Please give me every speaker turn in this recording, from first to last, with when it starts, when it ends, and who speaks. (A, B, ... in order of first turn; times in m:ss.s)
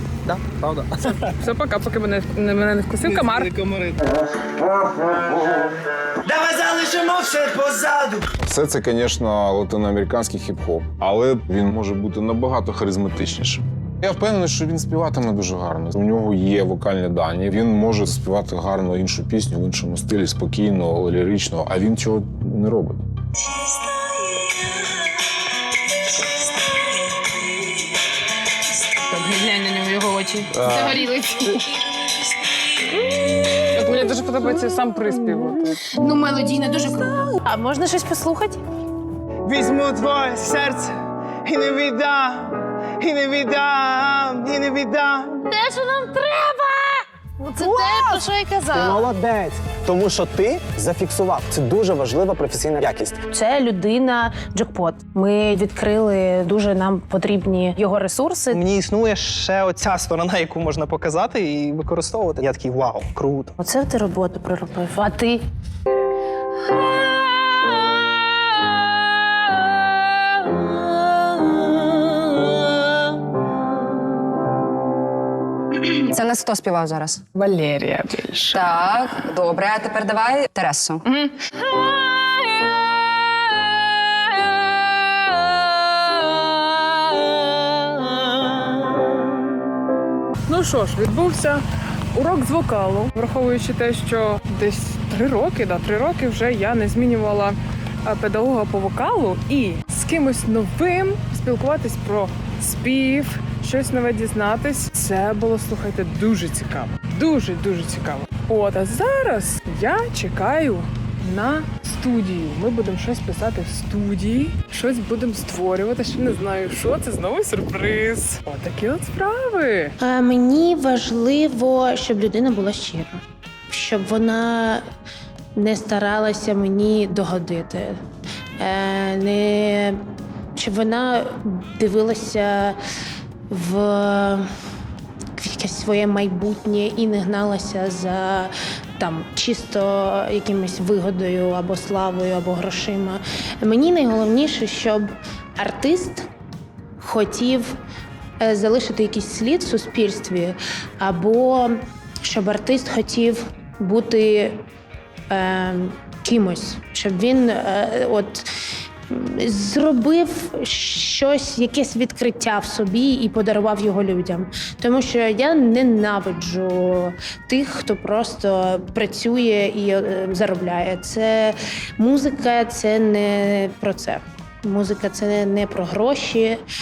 0:00.2-0:01.4 A
0:01.4-0:03.5 B
0:03.0-0:04.2 A
0:06.2-0:08.3 A
0:08.4-0:23.0 C
0:29.1-0:31.6 D
0:33.7-0:35.7 B
0:35.9-0:38.6 D
0:39.4-0:40.9 A
0:41.4-0:45.4 A
0:45.5-0:48.8 D
0:47.7-0:48.0 A
0:48.7-0:53.2 E
0:53.3-0:58.6 D
0:58.5-1:03.6 A
1:03.6-1:05.4 D
1:15.9-1:17.2 F
1:17.4-1:18.6 B
1:18.5-1:21.0 F
1:30.5-1:31.6 B
1:32.1-2:00.0 B
2:00.0-2:04.8 D
2:05.6-2:08.0 D
2:08.6-2:10.0 D
2:10.6-2:12.8 D
2:13.5-2:14.5 D
2:15.4-2:26.3 D
2:27.0-2:27.8 D
2:28.4-2:34.6 D
2:35.3-2:38.5 D
2:39.1-2:56.6 D